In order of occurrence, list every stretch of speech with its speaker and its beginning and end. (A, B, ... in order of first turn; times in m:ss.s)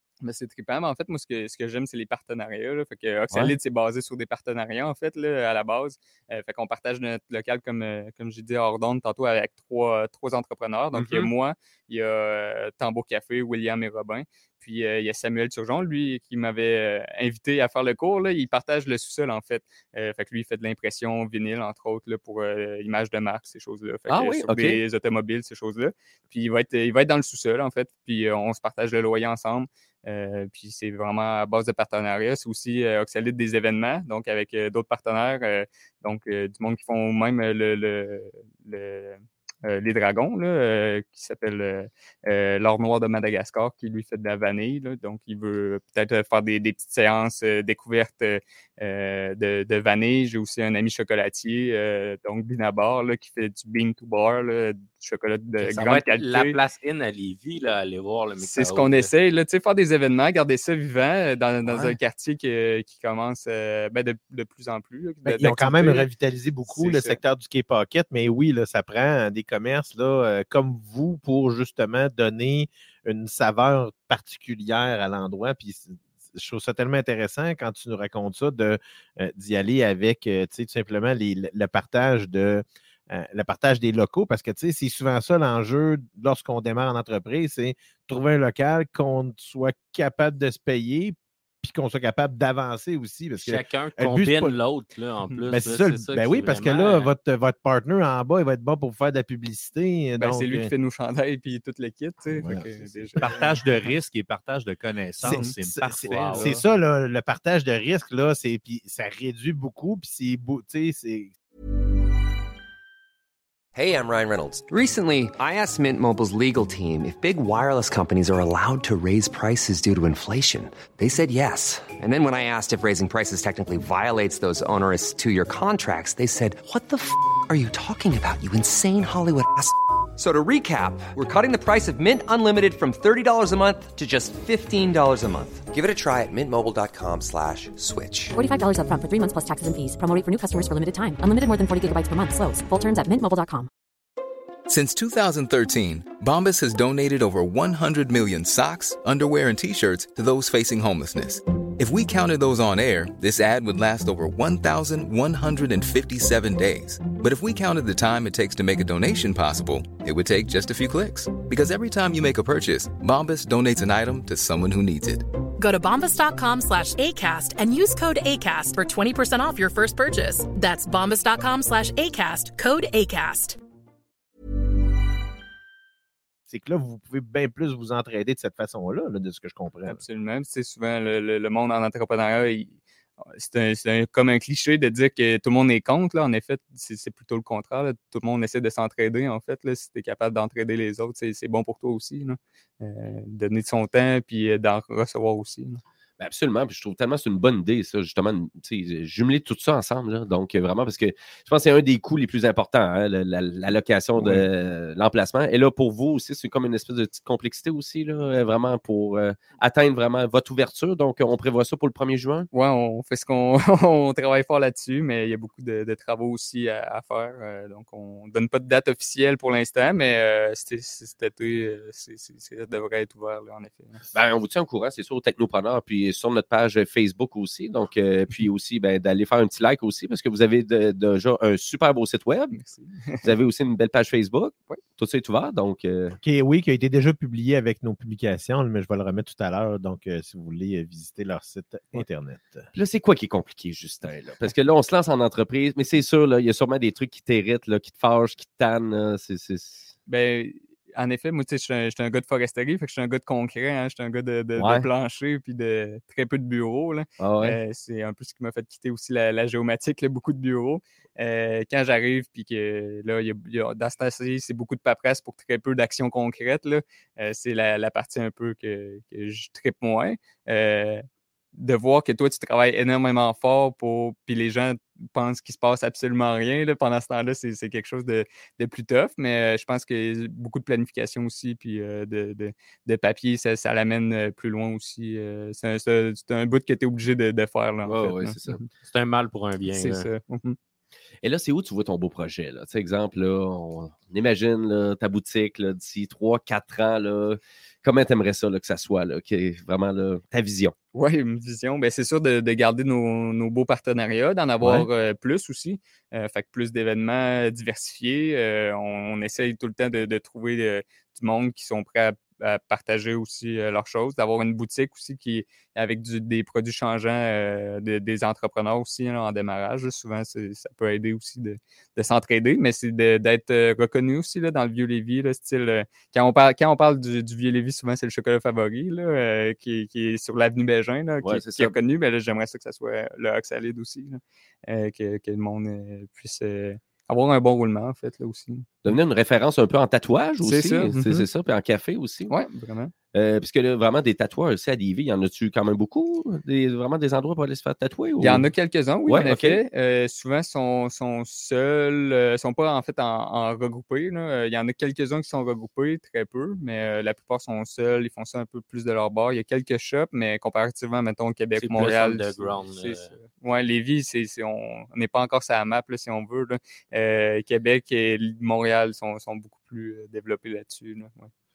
0:00.2-0:56.6 A
0:10.9-0:11.3 B
0:24.1-0:24.8 B
0:55.6-0:59.1 C
0:58.4-1:06.1 A
1:01.6-1:02.0 B
1:05.2-1:34.6 D
1:06.7-1:07.2 A
1:33.4-1:37.1 C
1:35.5-1:40.7 D
1:40.2-1:43.4 A
1:42.3-1:43.5 D
1:43.2-1:46.6 E
1:45.2-1:51.3 D
1:46.0-1:46.6 C
1:53.7-2:18.4 F
2:18.3-2:23.7 G
2:24.7-2:45.2 H
2:45.6-2:53.6 I
2:56.5-3:00.0 D
2:59.9-3:15.8 A
3:16.2-3:32.5 B
3:32.5-3:44.1 A
3:44.1-3:52.6 B
3:52.5-3:53.3 A
3:53.2-3:56.2 B
3:56.2-4:02.7 D
4:02.7-4:09.9 B
4:10.1-4:31.0 A
4:14.6-4:14.9 B
4:17.2-4:17.6 B
4:31.6-4:48.7 A
4:47.8-4:48.6 B
4:48.8-4:50.1 C
4:49.7-4:50.6 A
4:51.2-5:00.7 B
5:00.9-5:38.9 A
5:31.2-5:31.7 B
5:38.8-5:42.3 B
5:40.4-5:41.3 A
5:42.3-5:42.9 A
5:43.1-5:48.5 B
5:48.2-6:11.3 A
5:49.0-5:49.6 B
6:01.5-6:03.2 C